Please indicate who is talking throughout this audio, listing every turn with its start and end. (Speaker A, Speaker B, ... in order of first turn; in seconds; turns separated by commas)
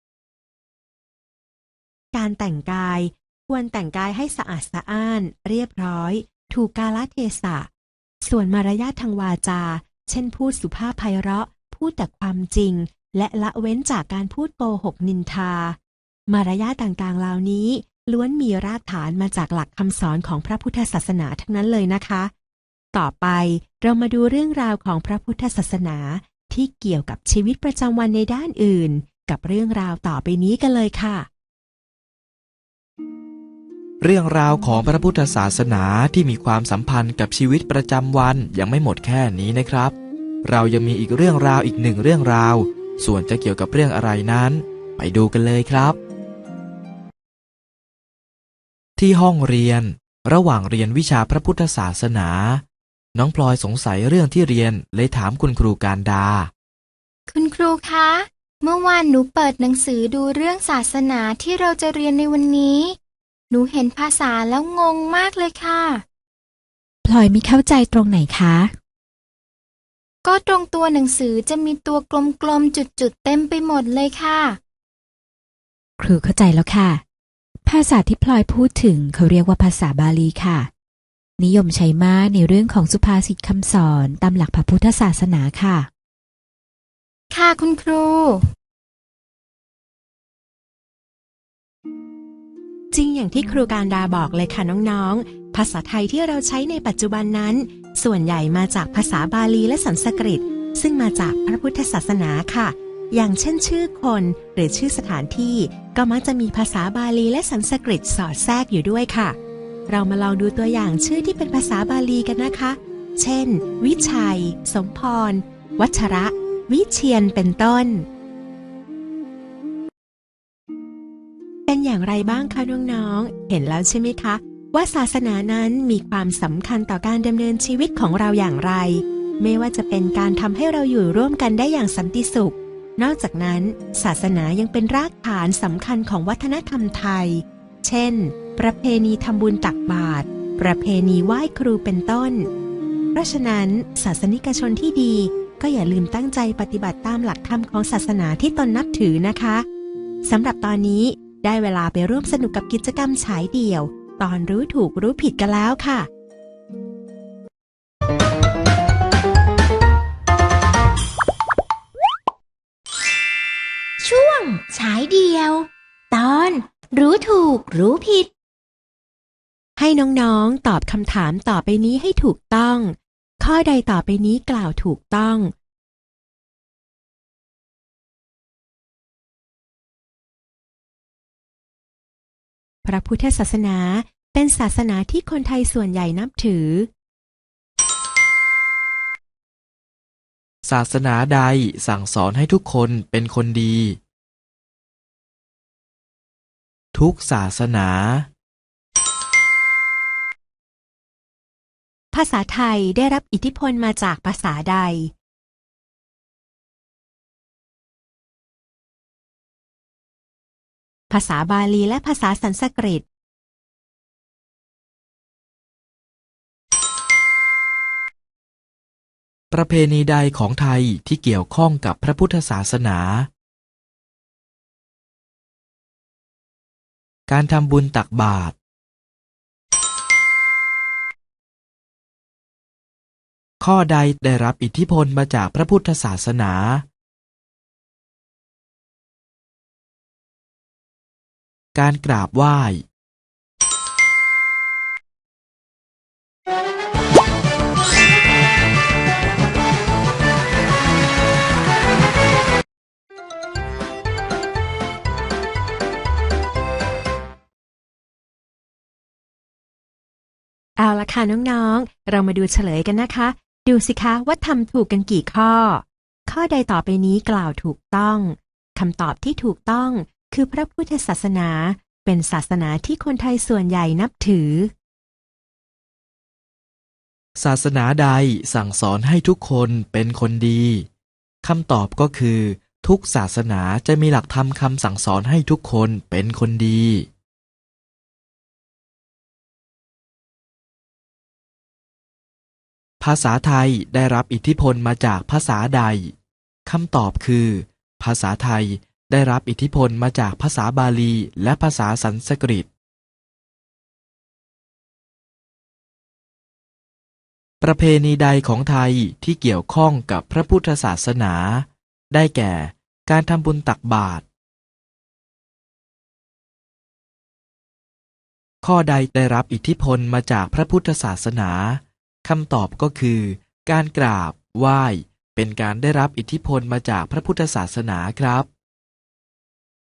Speaker A: 2.1-7.7, Speaker A: 8.2-22.3, Speaker A: 22.9-31.3, Speaker B: 34.0-46.0, Speaker B: 49.0-52.6, Speaker B: 53.1-56.5, Speaker C: 57.3-63.0, Speaker C: 63.5-66.0, Speaker D: 67.0-68.7, Speaker C: 70.2-74.6, Speaker D: 76.0-77.0, Speaker D: 77.7-80.7, Speaker D: 81.4-85.9, Speaker C: 87.3-88.4, Speaker A: 92.9-109.4, Speaker A: 109.9-118.0, Speaker A: 121.7-142.5, Speaker A: 143.1-149.7, Speaker A: 150.2-156.1, Speaker E: 164.0-168.3, Speaker A: 169.8-175.5, Speaker A: 182.8-186.9, Speaker B: 190.6-194.0, Speaker B: 196.9-198.3, Speaker A: 202.1-205.1, Speaker A: 211.1-213.0, Speaker B: 219.5-223.3, Speaker B: 227.3-228.6, Speaker B: 233.6-236.8, Speaker B: 241.7-242.8, Speaker A: 260.8-274.7, Speaker B: 277.4-280.9, Speaker B: 281.4-287.1, Speaker B: 293.0-296.1, Speaker B: 296.6-302.7, Speaker B: 307.6-314.2, Speaker B: 318.6-328.5